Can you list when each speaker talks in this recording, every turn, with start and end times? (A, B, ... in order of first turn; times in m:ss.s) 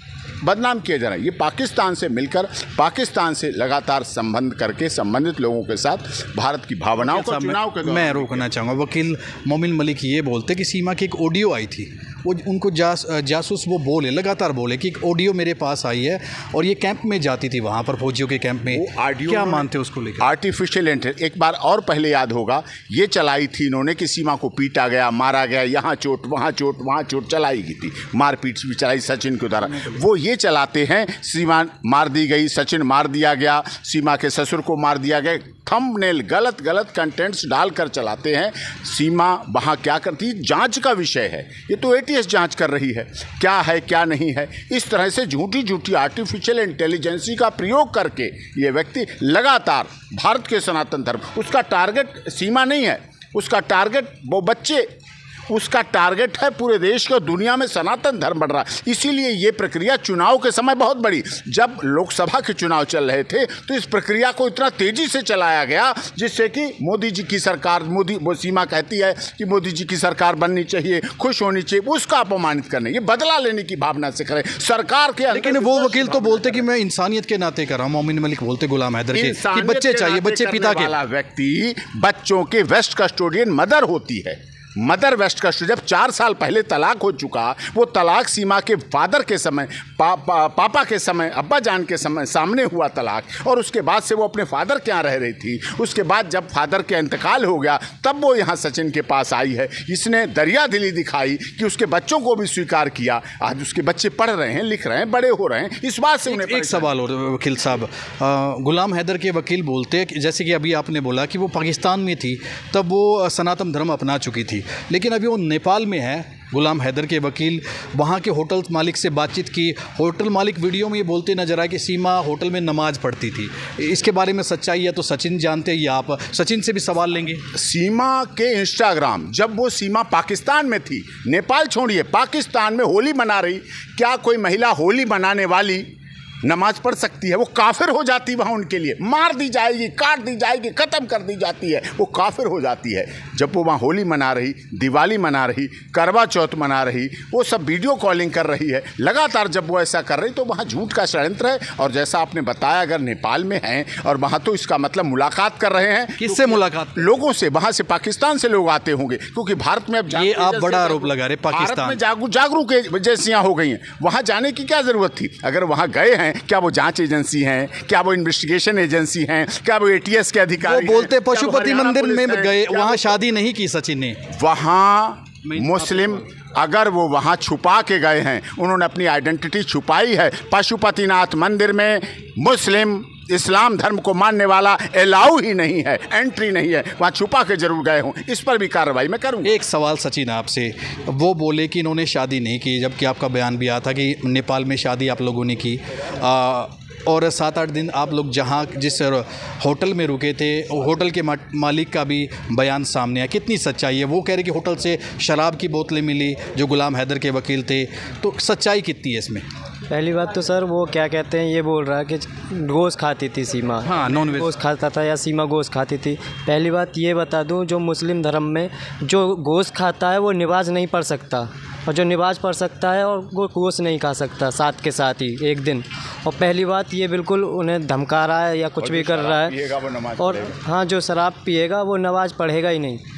0:00.4-0:08.5 A
0:07.0-0:20.3 B
0:18.7-0:54.9 A
0:55.5-1:16.6 A
1:15.3-1:20.9 B
1:19.1-1:46.9 A
1:46.3-2:07.4 B
2:07.5-2:15.8 A
2:16.4-2:53.1 A
2:36.2-2:37.1 B
2:40.1-2:42.0 B
2:50.6-2:54.2 B
2:54.3-3:09.6 A
2:55.4-2:56.2 B
3:09.4-3:29.4 B
3:29.9-3:49.6 C
3:33.8-3:34.5 B
3:48.8-3:50.6 A
3:50.2-3:53.0 C